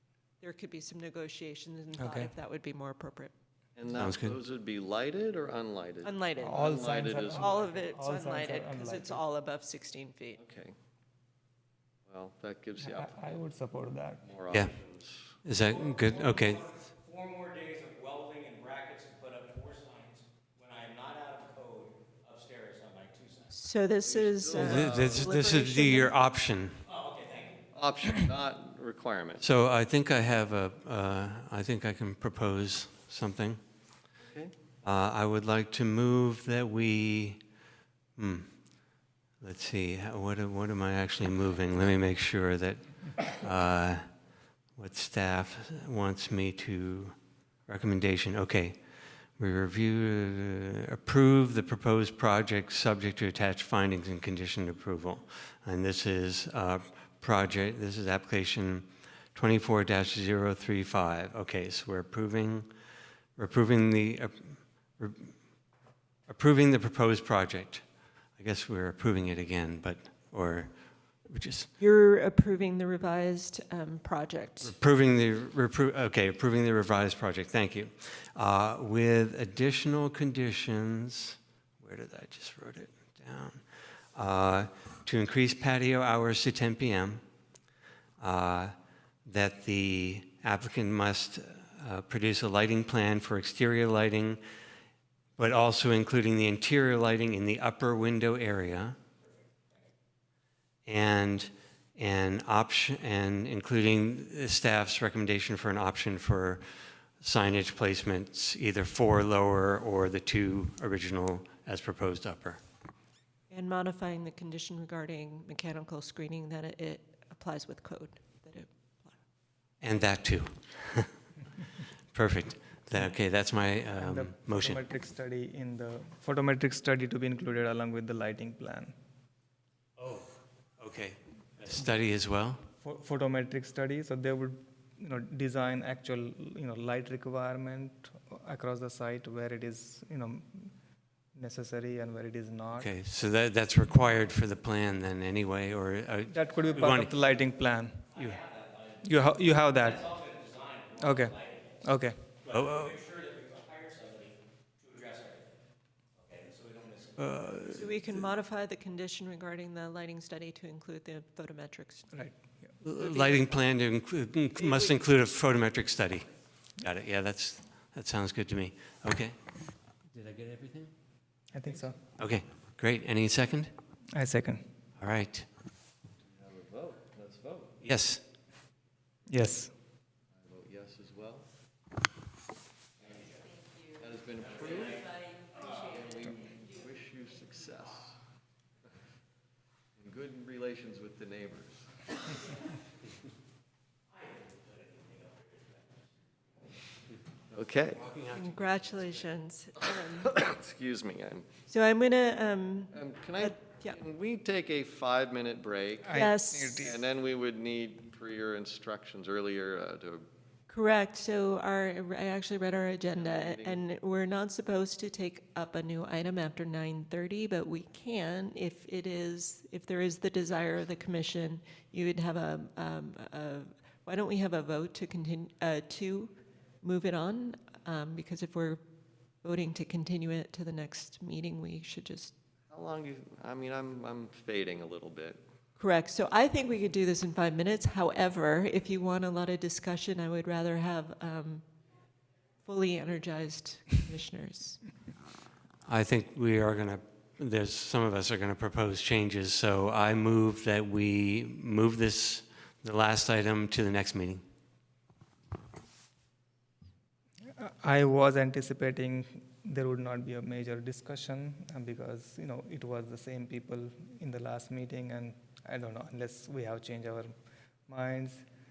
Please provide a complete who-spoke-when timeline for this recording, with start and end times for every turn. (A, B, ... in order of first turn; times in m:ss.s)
0:00.4-0:03.3 A
0:02.0-0:02.3 B
0:03.8-0:07.6 C
0:04.0-0:04.3 D
0:06.0-0:10.4 A
0:06.4-0:09.2 B
0:10.4-0:10.7 C
0:12.0-0:13.4 C
0:12.8-0:14.2 B
0:14.2-0:15.4 C
0:15.4-0:16.7 D
0:15.7-0:23.5 E
0:23.5-0:26.1 A
0:24.0-0:25.3 C
0:24.5-0:26.8 D
0:26.8-0:27.6 E
0:27.7-0:29.4 C
0:29.4-0:33.6 D
0:34.2-0:34.5 C
0:34.8-0:37.4 D
0:38.2-0:38.6 D
0:39.4-0:44.0 D
0:44.8-0:48.8 D
0:49.4-1:02.7 D
1:03.4-1:05.4 D
1:06.3-1:07.8 D
1:08.4-1:11.7 D
1:11.8-1:14.8 A
1:14.6-1:23.6 D
1:24.1-1:27.2 D
1:28.2-1:28.7 D
1:29.3-1:34.4 D
1:35.4-1:39.0 D
1:40.9-1:46.6 D
1:47.2-1:52.6 D
1:53.5-1:59.2 A
1:59.8-2:01.2 D
2:02.1-2:04.8 D
2:04.0-2:08.9 B
2:10.0-2:10.2 D
2:10.8-2:12.6 D
2:12.8-2:20.7 B
2:21.4-2:22.9 B
2:22.7-2:27.1 D
2:26.3-2:28.1 B
2:28.1-2:31.8 E
2:29.0-2:30.0 B
2:31.0-2:32.2 B
2:32.4-2:35.5 E
2:32.5-2:33.0 D
2:36.2-2:37.4 E
2:37.2-2:38.0 D
2:37.7-2:42.2 A
2:42.1-2:42.7 B
2:42.8-2:49.4 D
2:43.0-2:43.4 A
2:44.6-2:44.9 A
2:50.1-2:50.9 D
2:51.5-2:52.0 B
2:52.2-2:53.7 D
2:54.1-2:54.6 B
2:55.0-2:55.5 D
2:56.2-2:57.8 C
2:57.8-2:58.2 D
2:59.3-2:59.7 B
3:00.3-3:01.5 C
3:03.9-3:08.2 C
3:10.0-3:12.0 C
3:14.5-3:15.6 E
3:17.5-3:18.0 C
3:17.8-3:19.3 D
3:18.3-3:20.3 A
3:19.8-3:21.5 C
3:21.6-3:24.0 A
3:22.9-3:30.3 C
3:26.0-3:27.0 B
3:26.1-3:26.9 A
3:30.7-3:48.8 A
3:33.1-3:33.8 C
3:49.4-3:52.3 A
3:52.7-3:55.4 C
3:55.8-4:01.6 A
4:02.6-4:04.8 A
4:05.8-4:14.4 D
4:17.6-4:27.3 B
4:27.9-4:28.4 B